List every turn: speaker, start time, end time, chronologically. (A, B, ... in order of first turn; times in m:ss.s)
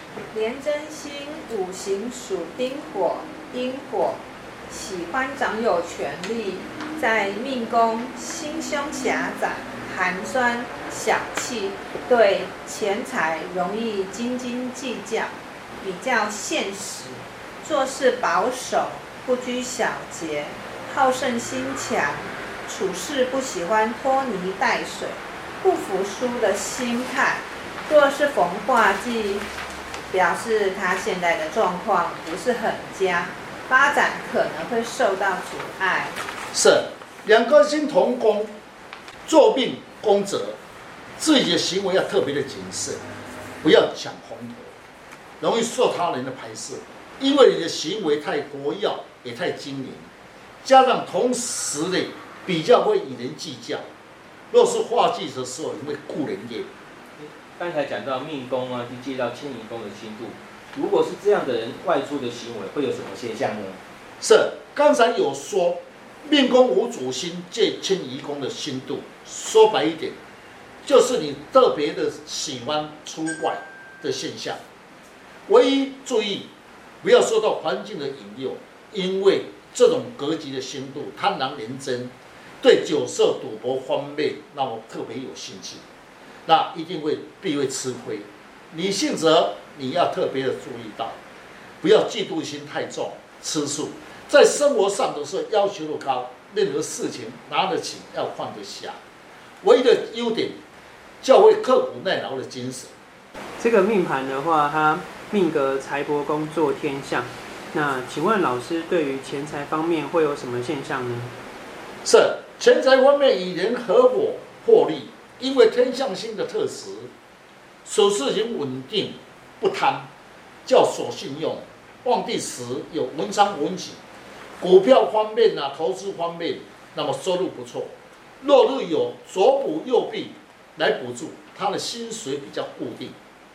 0:00.3-0:29.5 A
0:30.1-0:36.2 A
0:36.5-0:38.6 B
0:39.3-0:40.6 B
0:41.2-0:43.0 B
0:43.6-0:44.7 B
0:45.4-0:50.1 B
0:50.6-0:53.9 B
0:54.5-0:56.7 B
0:57.2-1:03.8 C
1:04.2-1:10.2 B
1:10.8-1:14.6 B
1:15.5-1:16.5 B
1:17.0-1:25.8 B
1:26.5-1:31.2 B
1:31.8-1:39.0 B
1:39.6-1:40.6 B
1:41.2-1:42.9 B
1:43.6-1:51.4 D
1:52.0-1:57.1 B
1:57.8-2:00.1 B
2:00.6-2:04.0 B
2:04.6-2:13.2 B